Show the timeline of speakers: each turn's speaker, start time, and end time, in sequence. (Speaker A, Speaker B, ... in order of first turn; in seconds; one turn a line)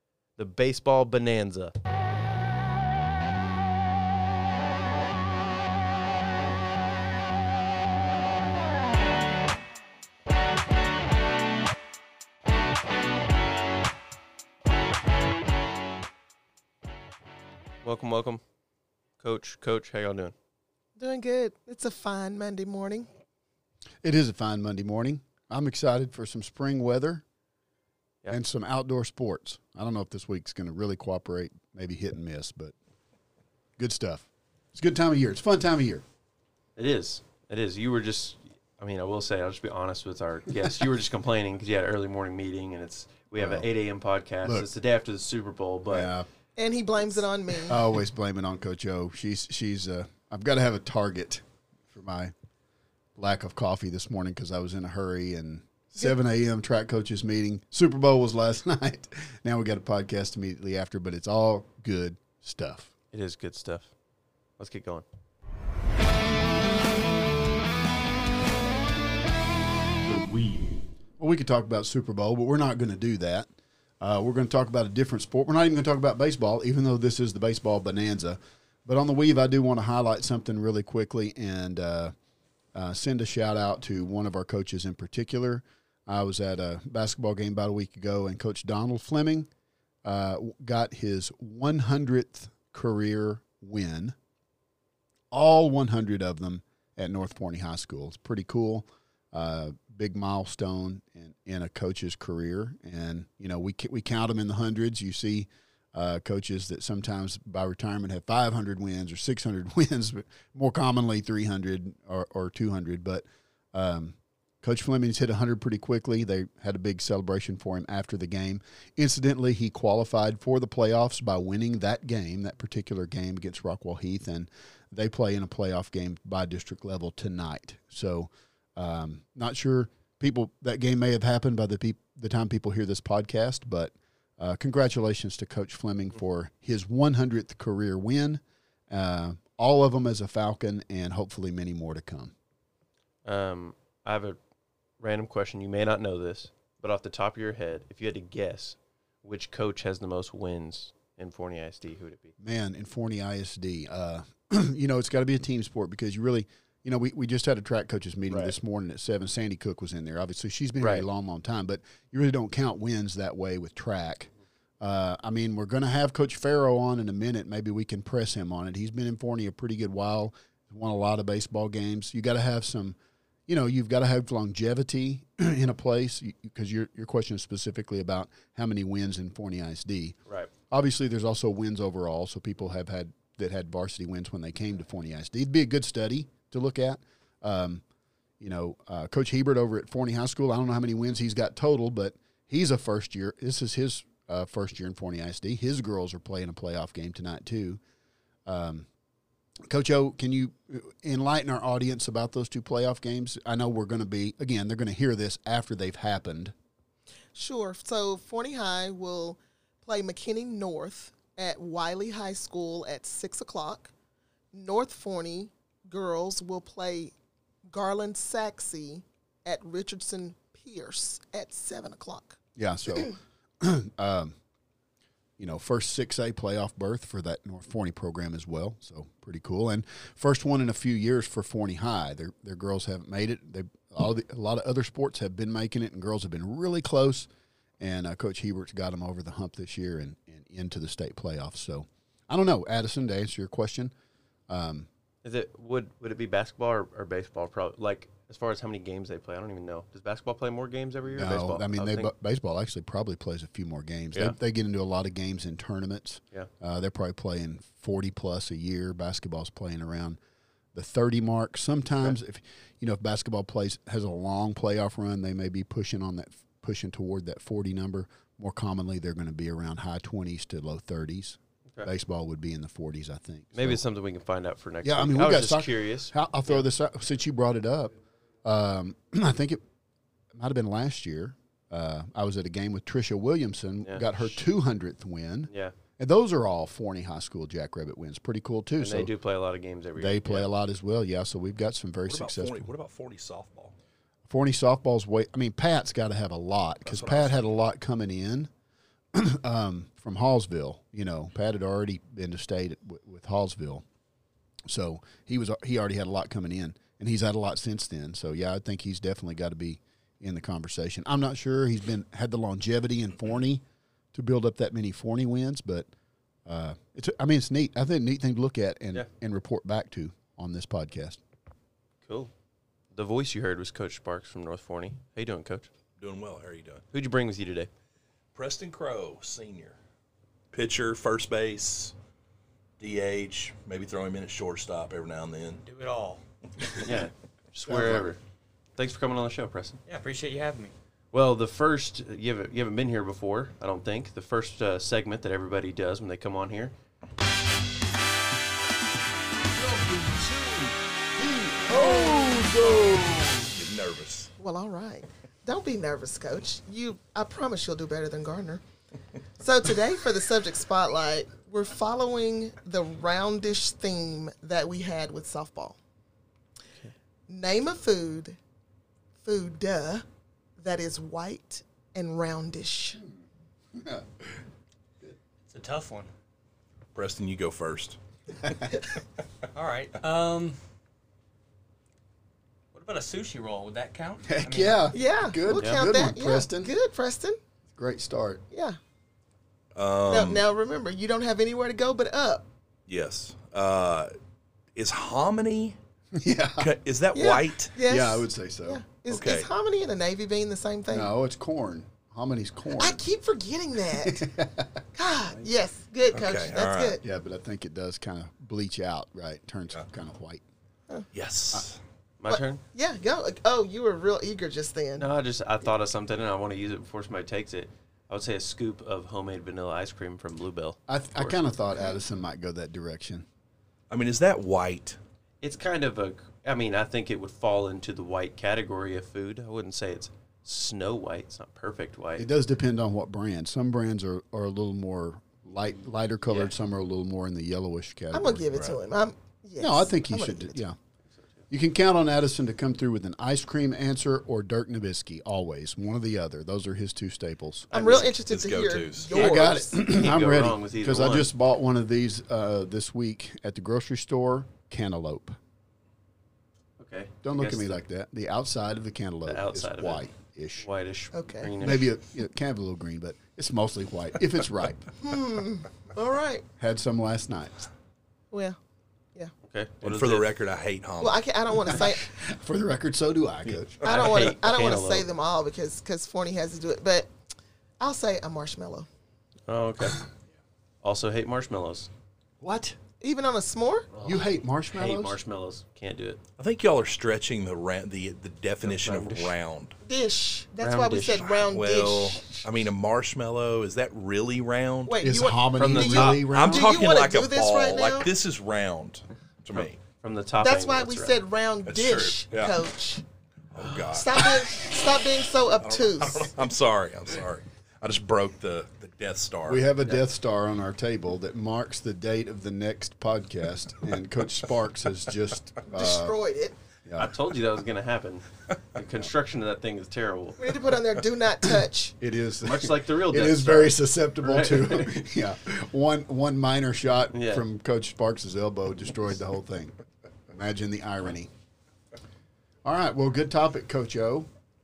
Speaker A: 0.3-1.7
Speaker A: 17.8-18.4
Speaker A: 19.2-20.3
Speaker B: 21.0-23.1
Speaker C: 24.0-27.2
Speaker C: 28.3-32.7
Speaker C: 33.8-36.0
Speaker A: 36.8-46.1
Speaker C: 43.4-43.7
Speaker C: 45.9-46.3
Speaker B: 46.6-47.8
Speaker C: 47.7-52.3
Speaker C: 53.1-62.9
Speaker A: 63.1-63.9
Speaker A: 64.6-65.0
Speaker C: 71.2-73.5
Speaker C: 74.0-82.1
Speaker C: 82.7-89.5
Speaker C: 90.0-94.2
Speaker C: 95.3-142.3
Speaker A: 143.2-144.4
Speaker A: 145.0-152.3
Speaker C: 152.4-172.9
Speaker A: 158.3-158.5
Speaker A: 160.8-161.1
Speaker C: 173.5-180.2
Speaker C: 180.7-187.8
Speaker C: 188.4-197.8
Speaker C: 198.4-198.9
Speaker C: 199.7-206.5
Speaker B: 207.3-213.9
Speaker B: 214.5-217.1
Speaker B: 217.7-222.4
Speaker C: 222.6-224.3
Speaker C: 225.4-237.3
Speaker C: 237.8-243.9
Speaker C: 244.5-244.9
Speaker A: 245.2-252.1
Speaker C: 251.1-260.2
Speaker C: 260.7-273.8
Speaker A: 273.5-276.6
Speaker C: 274.8-279.6
Speaker C: 280.3-289.1
Speaker A: 283.8-284.4
Speaker A: 285.5-285.7
Speaker A: 288.8-290.5
Speaker C: 290.0-292.7
Speaker D: 292.1-293.7
Speaker C: 294.2-298.5
Speaker D: 296.9-297.3
Speaker C: 299.1-303.8
Speaker C: 304.7-315.9
Speaker C: 316.4-321.2
Speaker A: 322.0-322.3
Speaker A: 322.9-325.7
Speaker D: 326.0-326.8
Speaker A: 326.9-327.7
Speaker D: 328.3-329.8
Speaker D: 330.5-331.9
Speaker D: 332.8-335.6
Speaker E: 335.6-336.2
Speaker A: 336.8-338.2
Speaker C: 337.6-338.0
Speaker A: 338.8-339.8
Speaker E: 339.9-340.7
Speaker A: 341.1-346.7
Speaker C: 349.6-353.4
Speaker B: 351.7-352.5
Speaker D: 353.4-354.3
Speaker B: 354.4-358.6
Speaker B: 359.4-365.8
Speaker B: 367.3-368.4
Speaker B: 369.2-370.0
Speaker B: 370.6-373.0
Speaker C: 373.7-374.4
Speaker E: 375.5-376.1
Speaker D: 376.9-378.5
Speaker E: 379.5-380.6
Speaker E: 382.7-384.8
Speaker C: 384.2-386.7
Speaker B: 384.9-387.4
Speaker A: 385.5-385.8
Speaker C: 387.7-388.4
Speaker B: 388.5-388.8
Speaker D: 389.8-390.4
Speaker B: 390.1-392.4
Speaker D: 392.9-394.1
Speaker D: 394.8-395.8
Speaker C: 396.1-396.7
Speaker D: 396.6-397.8
Speaker B: 397.1-401.1
Speaker C: 397.9-398.8
Speaker D: 399.1-399.5
Speaker C: 400.9-403.0
Speaker B: 402.8-404.3
Speaker C: 404.0-404.8
Speaker B: 404.9-407.0
Speaker D: 406.1-407.0
Speaker C: 407.0-410.4
Speaker D: 411.1-411.8
Speaker A: 412.2-412.6
Speaker B: 412.3-415.1
Speaker A: 415.0-421.3
Speaker C: 420.9-423.2
Speaker D: 423.9-425.0
Speaker A: 425.4-432.3
Speaker C: 432.2-438.8
Speaker A: 436.3-436.5
Speaker B: 438.1-440.6
Speaker C: 439.6-440.8
Speaker A: 441.1-441.4
Speaker C: 441.5-447.7
Speaker A: 447.7-448.1
Speaker B: 447.7-449.8
Speaker D: 448.2-449.5
Speaker C: 449.1-455.4
Speaker A: 449.7-451.3
Speaker A: 456.8-457.8
Speaker C: 457.2-460.7
Speaker A: 459.2-460.1
Speaker A: 460.6-461.9
Speaker B: 461.1-461.5
Speaker C: 461.6-464.9
Speaker B: 465.0-466.4
Speaker C: 466.6-467.7
Speaker B: 468.3-468.6
Speaker A: 469.4-470.3
Speaker D: 469.8-471.2
Speaker B: 471.0-472.1
Speaker C: 471.6-473.8
Speaker A: 473.8-475.1
Speaker B: 473.8-477.1
Speaker B: 477.8-478.9
Speaker A: 479.5-480.1
Speaker A: 480.8-481.9
Speaker C: 482.4-482.8
Speaker B: 483.0-483.9
Speaker A: 483.9-484.2
Speaker C: 484.0-485.1
Speaker A: 484.7-486.2
Speaker D: 486.4-489.8
Speaker A: 488.6-489.3
Speaker B: 489.8-492.4
Speaker A: 490.6-491.4
Speaker D: 491.5-495.0
Speaker B: 494.9-498.1
Speaker C: 495.0-496.8
Speaker D: 495.7-499.8
Speaker A: 499.5-501.2
Speaker B: 500.4-503.0
Speaker D: 501.6-502.6
Speaker D: 503.5-504.8
Speaker B: 503.9-506.4
Speaker D: 505.5-509.6
Speaker C: 509.5-516.1
Speaker B: 515.7-516.5
Speaker C: 516.9-517.1
Speaker A: 517.0-520.4
Speaker B: 520.4-521.9
Speaker C: 522.0-529.8
Speaker A: 522.4-525.0
Speaker A: 527.1-527.5
Speaker C: 530.3-531.3
Speaker C: 532.6-534.3